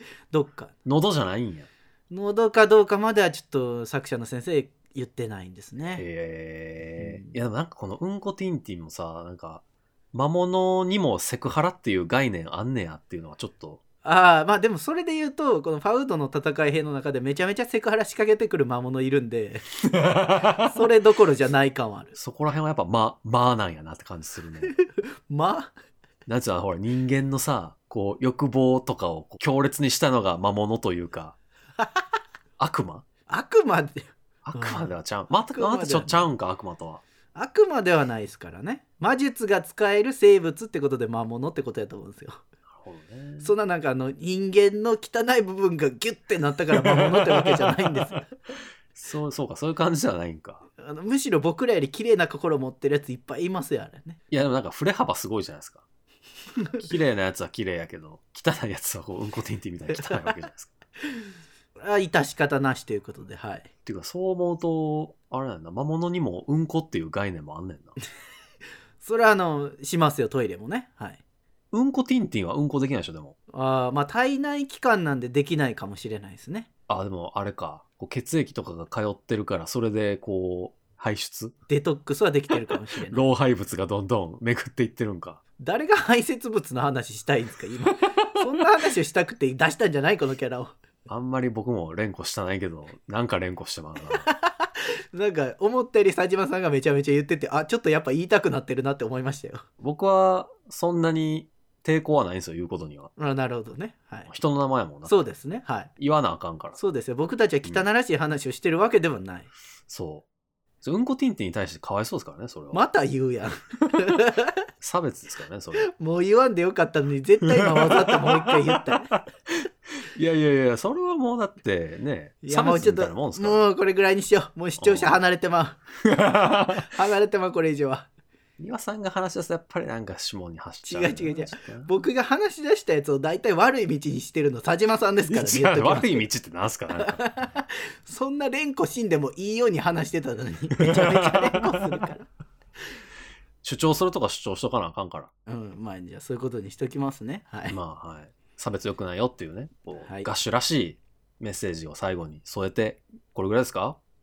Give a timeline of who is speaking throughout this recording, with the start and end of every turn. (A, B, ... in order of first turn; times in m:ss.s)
0:00.3-0:00.7 A
0:00.8-0:01.7 B
0:02.1-0:06.0 A
0:06.0-0:13.8 B
0:07.0-0:07.4 A
0:14.0-0:19.6 A
0:19.8-0:20.8 B
0:20.6-0:22.1 A
0:22.1-0:24.8 B
0:24.7-0:25.7 A
0:26.2-0:31.4 B
0:32.6-0:33.0 B
0:33.3-0:34.9 A
0:34.4-0:37.0 B
0:35.5-0:36.3 A
0:37.3-0:42.4 A
0:42.7-0:43.5 B
0:43.4-0:48.3 A
0:46.7-0:48.1 B
0:48.9-0:50.6 B
0:50.8-0:54.2 A
0:54.3-0:55.8 B
0:56.8-1:00.7 B
0:59.9-1:00.3 A
1:01.8-1:03.7 A
1:03.8-1:07.9 B
1:09.0-1:11.2 A
1:11.7-1:13.3 B
1:13.5-1:16.7 A
1:16.9-1:21.5 B
1:21.7-1:23.2 A
1:23.1-1:25.4 B
1:25.6-1:30.7 A
1:28.0-1:28.4 B
1:31.1-1:34.2 B
1:34.2-1:39.6 A
1:39.8-1:43.1 B
1:43.2-1:44.3 A
1:44.3-1:45.2 B
1:45.0-1:45.9 A
1:46.0-1:46.8 B
1:46.8-1:49.5 A
1:49.9-1:50.2 B
1:50.8-1:52.8 B
1:52.7-1:54.6 A
1:54.8-1:55.9 B
1:55.8-1:59.1 A
1:57.5-2:03.6 B
2:02.4-2:05.8 A
2:04.8-2:05.2 B
2:06.0-2:06.9 B
2:06.7-2:08.1 A
2:08.6-2:11.9 B
2:10.8-2:16.3 A
2:15.3-2:17.2 B
2:17.0-2:22.3 A
2:20.8-2:22.0 B
2:23.6-2:25.3 B
2:25.5-2:27.8 A
2:27.7-2:34.0 B
2:30.0-2:30.3 A